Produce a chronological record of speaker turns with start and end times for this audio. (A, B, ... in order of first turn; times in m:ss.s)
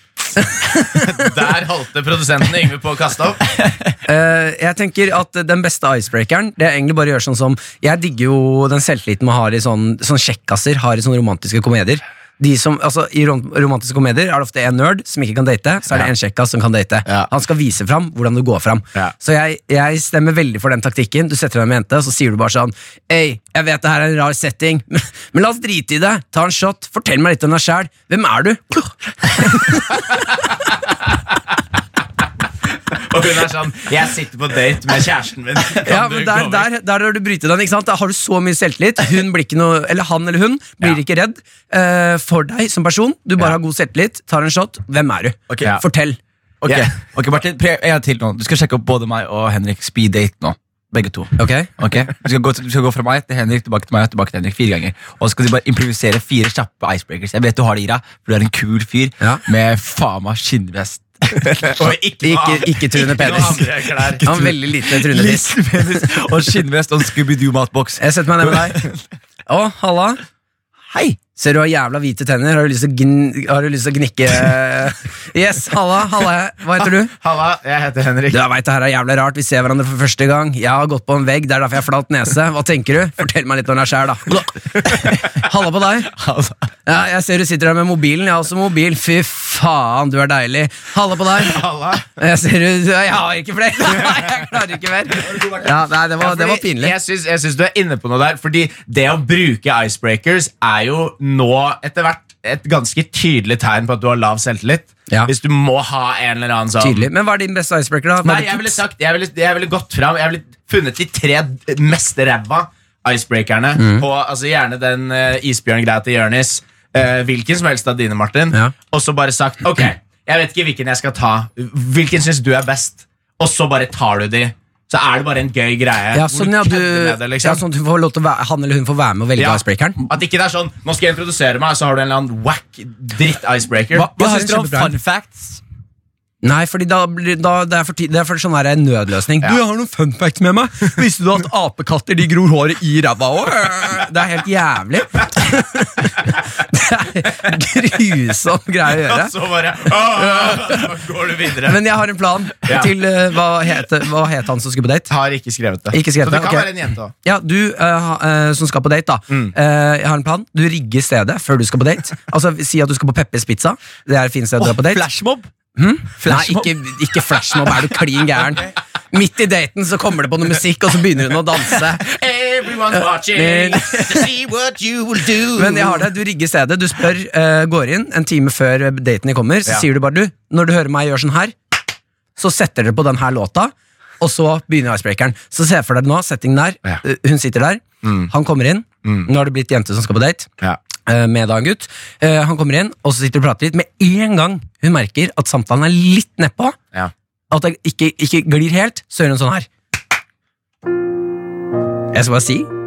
0:00.9-0:03.4 A
0:04.0-0:30.0 B
0:32.9-0:36.7 A
0:35.8-0:46.2 B
0:45.5-0:45.8 C
0:46.6-1:01.8 C
0:51.4-0:51.7 B
1:01.7-1:04.2 A
1:02.2-1:03.7 B
1:03.2-1:03.5 C
1:04.1-1:09.0 C
1:04.2-1:05.6 B
1:08.0-1:08.8 B
1:09.5-1:10.2 B
1:10.9-1:11.2 C
1:11.4-1:17.1 B
1:17.2-1:18.4 A
1:18.3-1:26.1 B
1:26.1-1:26.6 C
1:26.8-1:31.6 B
1:31.4-1:32.1 A
1:32.2-1:36.9 B
1:35.1-1:35.8 C
1:36.2-1:47.1 A
1:46.8-1:48.8 B
1:48.2-2:07.6 A
1:53.8-1:54.0 B
2:06.1-2:10.0 B
2:09.4-2:14.1 A
2:13.9-2:15.6 C
2:14.1-2:14.9 B
2:16.4-2:29.3 B
2:29.0-2:31.8 A
2:30.1-2:30.9 B
2:31.7-2:35.1 B
2:32.6-2:32.9 A
2:35.1-2:37.1 A
2:35.9-2:36.7 B
2:37.2-2:45.0 B
2:44.6-2:45.5 C
2:45.7-2:52.1 B
2:46.2-2:46.8 C
2:52.0-2:56.0 A
2:53.3-2:54.2 B
2:55.5-3:01.6 B
3:02.4-3:10.5 B
3:08.0-3:08.3 A
3:09.0-3:09.3 A
3:11.0-3:16.8 B
3:17.5-3:19.7 B
3:22.1-3:22.7 B